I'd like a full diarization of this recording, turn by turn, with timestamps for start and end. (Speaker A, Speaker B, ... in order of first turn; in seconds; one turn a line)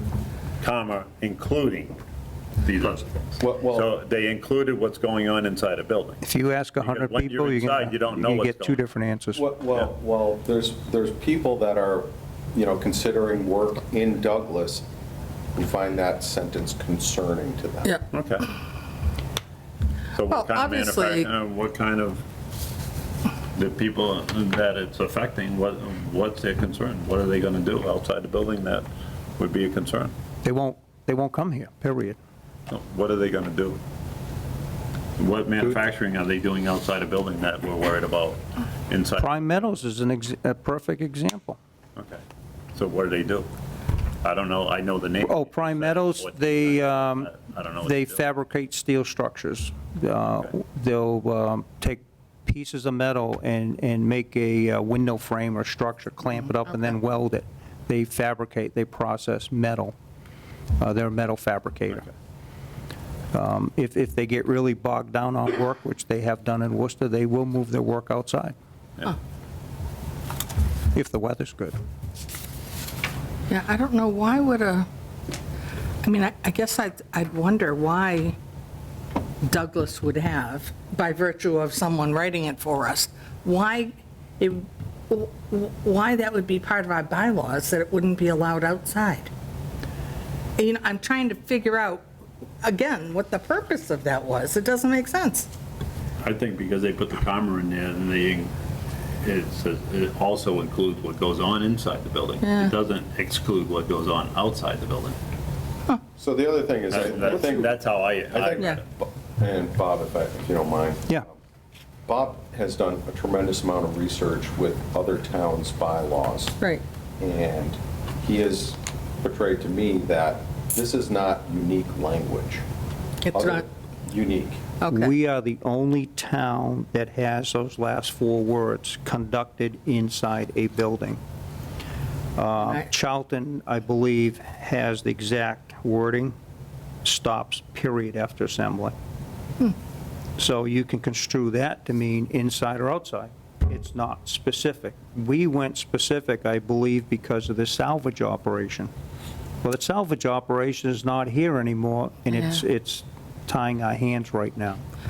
Speaker A: 0.6-2.0
Speaker A: 2.6-6.2
Speaker B: 3.4-3.9
Speaker C: 6.2-9.5
Speaker A: 6.8-8.8
Speaker B: 9.4-14.9
Speaker B: 15.6-18.0
Speaker A: 18.1-18.5
Speaker A: 20.1-22.2
Speaker D: 20.3-21.3
Speaker A: 23.6-28.9
Speaker A: 29.4-30.1
Speaker C: 30.4-32.2
Speaker A: 32.7-33.8
Speaker A: 35.2-39.3
Speaker C: 39.2-41.6
Speaker A: 42.0-42.2
Speaker A: 42.8-43.5
Speaker A: 44.2-48.2
Speaker C: 45.2-60.0
Speaker C: 60.8-62.1
Speaker C: 63.3-68.5
Speaker C: 70.9-71.8
Speaker D: 73.5-74.9
Speaker D: 76.0-78.4
Speaker D: 79.4-89.3
Speaker D: 90.6-92.1
Speaker D: 92.6-95.5
Speaker A: 96.2-98.5
Speaker A: 99.2-105.2
Speaker D: 102.4-102.7
Speaker B: 106.2-111.4
Speaker A: 106.9-108.8
Speaker B: 112.1-116.6
Speaker B: 117.2-122.6
Speaker D: 123.2-123.6
Speaker B: 123.3-124.6
Speaker D: 124.8-125.1
Speaker C: 124.9-131.2
Speaker C: 132.4-136.3
Speaker C: 137.0-138.9
Speaker C: 140.4-148.9
Speaker C: 149.6-154.8